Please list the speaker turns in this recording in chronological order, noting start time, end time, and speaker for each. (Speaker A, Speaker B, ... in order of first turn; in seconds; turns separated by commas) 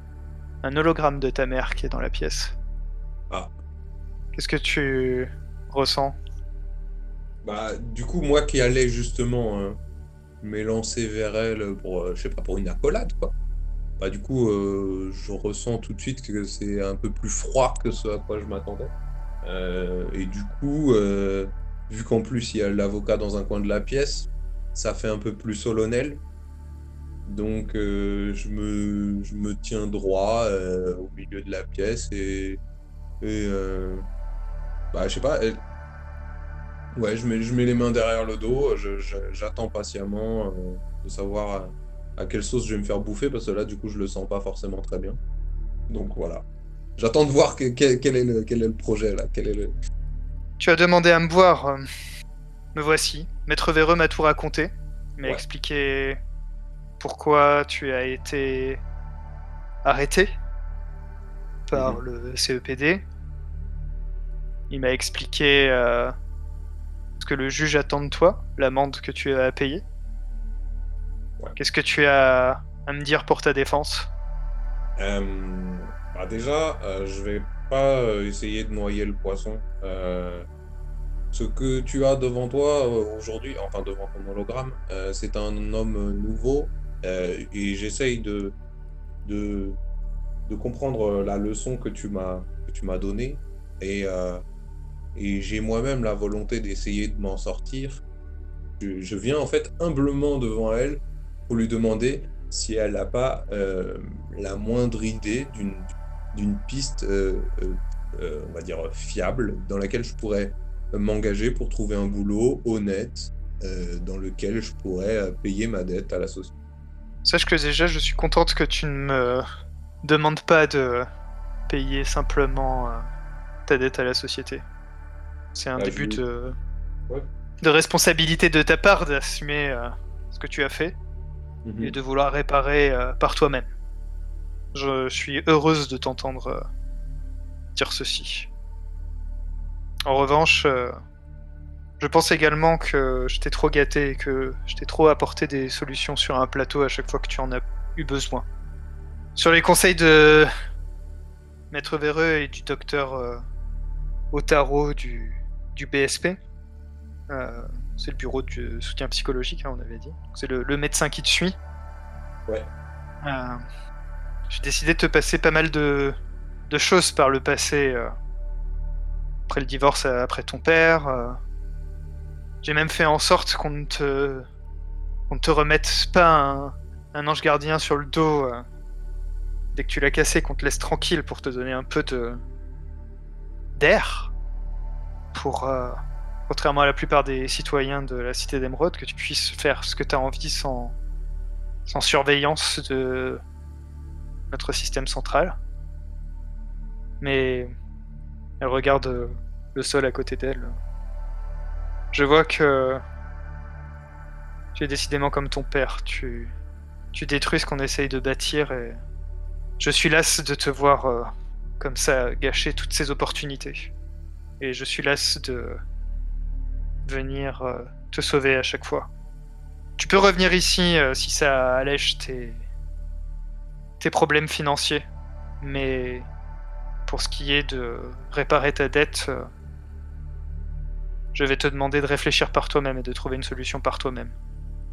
Speaker A: 0.6-2.6, Speaker A: 4.3-6.2, Speaker B: 7.4-9.8, Speaker B: 10.4-13.3, Speaker B: 14.0-18.9, Speaker B: 19.4-26.2, Speaker B: 27.3-32.6, Speaker B: 33.2-34.0, Speaker B: 34.9-35.6, Speaker B: 36.9-45.2, Speaker B: 45.9-46.4, Speaker B: 47.0-49.7, Speaker A: 50.6-51.8, Speaker A: 52.8-56.2, Speaker A: 57.0-58.8, Speaker A: 59.8-60.3, Speaker A: 61.7-63.0, Speaker B: 61.7-62.0, Speaker A: 64.7-66.1, Speaker A: 67.2-69.8, Speaker A: 71.6-74.1, Speaker B: 75.0-80.5, Speaker B: 81.3-88.5, Speaker B: 89.2-89.8, Speaker B: 90.5-94.4, Speaker B: 95.2-98.0, Speaker B: 98.8-116.5, Speaker A: 117.2-119.4, Speaker A: 120.0-121.1, Speaker A: 121.7-123.1, Speaker A: 123.7-124.6, Speaker A: 125.5-126.5, Speaker B: 125.8-126.2, Speaker A: 127.6-131.0, Speaker B: 131.6-132.0, Speaker A: 131.8-133.7, Speaker A: 134.7-136.7, Speaker A: 137.8-138.5, Speaker A: 140.1-141.0, Speaker A: 142.0-148.5, Speaker A: 149.4-150.5, Speaker A: 151.7-153.4, Speaker A: 154.3-156.4, Speaker A: 157.3-161.6, Speaker A: 163.2-163.6, Speaker A: 164.5-166.2, Speaker A: 166.7-168.1, Speaker A: 169.5-171.4, Speaker A: 172.6-174.5, Speaker A: 175.3-178.7, Speaker A: 179.7-182.4, Speaker A: 183.8-184.3, Speaker A: 185.3-190.9, Speaker A: 191.9-193.4, Speaker A: 194.5-195.6, Speaker A: 197.2-197.7, Speaker A: 198.6-200.7, Speaker A: 202.1-203.0, Speaker A: 204.8-206.5, Speaker A: 207.1-209.0, Speaker A: 209.8-213.9, Speaker A: 214.6-215.8, Speaker A: 217.1-219.1, Speaker A: 220.0-222.6, Speaker A: 224.0-225.0, Speaker A: 225.6-226.3, Speaker A: 227.1-229.5, Speaker A: 231.3-234.3